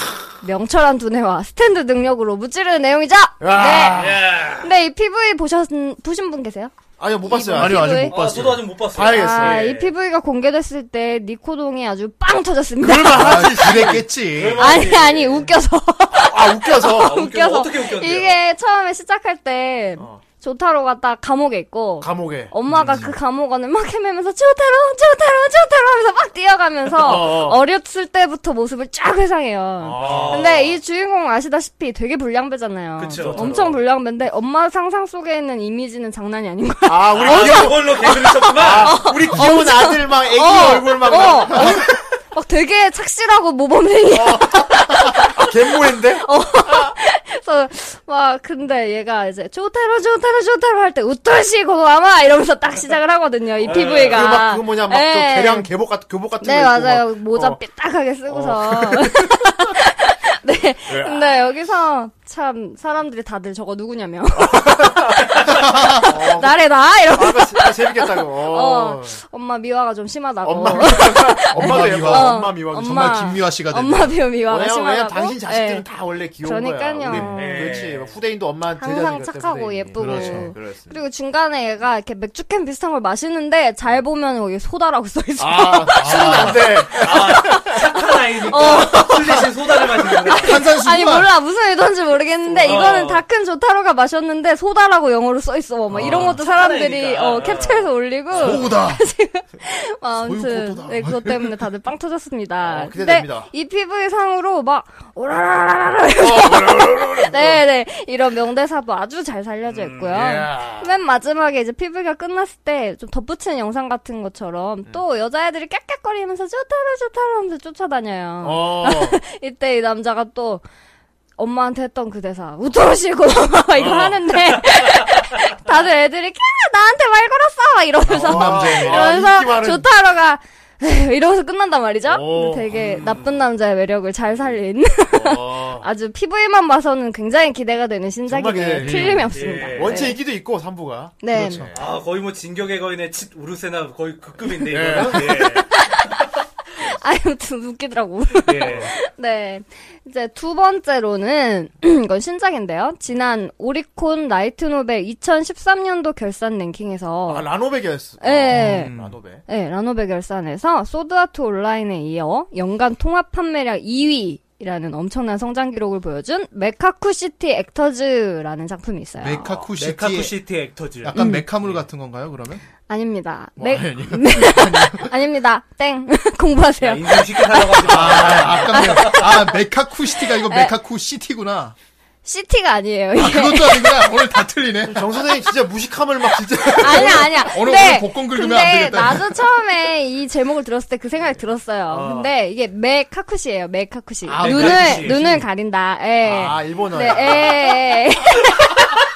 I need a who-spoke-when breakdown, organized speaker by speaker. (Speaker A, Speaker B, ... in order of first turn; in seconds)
Speaker A: 0.4-4.1, 4.6-8.2, 9.0-13.8, 14.5-55.7, 56.4-75.8, 76.4-77.8, 78.8-87.1, 88.4-89.5, 90.2-120.6, 121.4-140.2, 141.2-141.6, 145.2-146.2, 146.8-157.5, 158.2-169.6, 171.1-171.4, 172.8-178.2, 178.7-179.4, 180.1-180.8, 182.2-184.1, 186.8-198.8
Speaker B: 3.4-4.3, 7.0-8.1, 8.9-9.7, 12.8-14.1, 16.1-17.2, 20.0-20.2, 22.0-22.5, 26.9-27.6, 29.8-30.5, 33.1-33.8, 36.9-41.9, 44.1-46.9, 53.6-57.6, 58.3-59.5, 60.9-61.5, 64.3-66.6, 67.1-69.2, 70.4-73.2, 74.5-81.0, 85.4-87.8, 88.8-89.5, 102.6-103.5, 106.2-107.6, 110.1-110.9, 118.4-119.2, 123.7-124.2, 128.0-129.9, 132.1-133.1, 135.1-135.9, 138.3-141.9, 144.7-145.5, 157.2-159.4, 184.9-187.3, 194.3-195.1, 196.2-197.8
Speaker C: 3.9-4.7, 8.1-9.9, 14.3-15.5, 16.9-18.4, 30.0-30.7, 33.0-33.6, 37.1-39.1, 53.6-54.4, 77.3-78.1, 86.9-90.6, 92.6-93.2, 96.2-97.9, 109.7-110.4, 132.8-133.3, 139.3-140.1, 141.7-145.7, 148.4-148.9, 169.7-171.8, 176.8-179.4, 191.9-192.2, 194.3-195.3
Speaker D: 7.5-8.6, 13.1-14.8, 22.7-23.1, 65.7-66.0, 71.5-74.2, 77.1-77.3, 80.0-80.5, 86.0-86.6, 90.4-91.3, 95.9-96.4, 98.4-99.0, 100.2-101.6, 128.2-129.1, 138.8-139.3, 141.3-141.7, 158.5-159.2, 169.2-170.3, 171.0-172.6, 173.6-175.1, 177.8-181.7, 183.2-185.2, 186.8-189.4